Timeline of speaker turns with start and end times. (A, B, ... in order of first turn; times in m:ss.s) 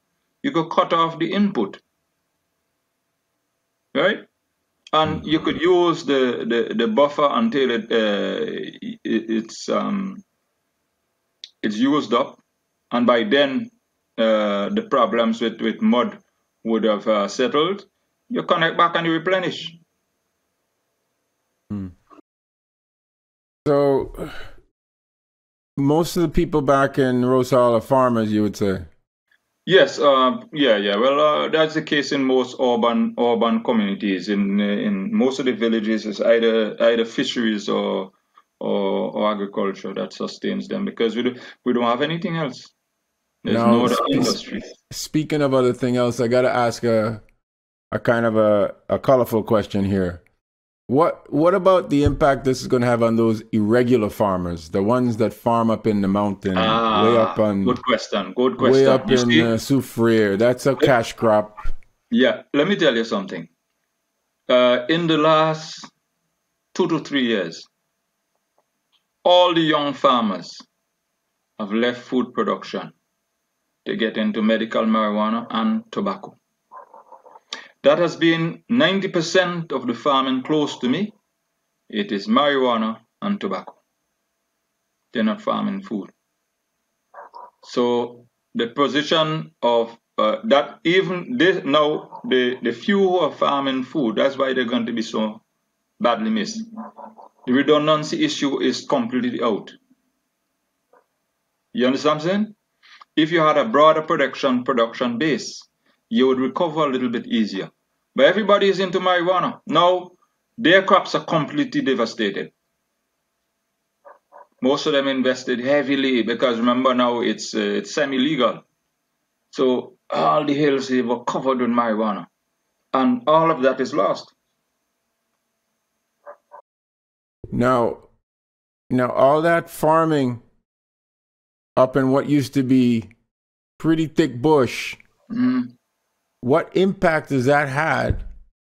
0:00.4-0:01.8 A
0:03.9-0:04.2 A
0:04.9-0:10.2 A
0:11.6-0:12.4 A
0:12.9-0:19.8 A
0:23.6-0:24.4 B
0:25.8-0:28.9 B
0:29.7-0:42.7 A
0:43.4-0:44.8 A
0:43.5-0:44.4 B
0:44.9-0:47.2 B
0:47.9-0:50.2 B
0:50.9-0:57.8 B
0:56.6-0:59.5 A
0:58.6-1:01.6 B
1:02.1-1:03.5 A
1:04.5-1:05.9 A
1:06.7-1:07.7 A
1:09.2-1:10.6 A
1:11.6-1:12.9 A
1:13.8-1:16.4 A
1:17.8-1:21.1 A
1:21.9-1:23.8 A
1:25.1-1:26.1 A
1:27.6-1:35.4 A
1:36.0-1:36.6 A
1:37.5-1:39.8 A
1:41.7-1:42.6 A
1:43.2-1:52.5 A
1:54.6-1:58.6 A
1:59.5-2:02.3 A
2:02.9-2:04.3 A
2:07.5-2:08.1 B
2:08.9-2:10.4 B
2:11.8-2:13.1 B
2:13.8-2:15.0 B
2:15.3-2:15.7 A
2:16.4-2:18.3 B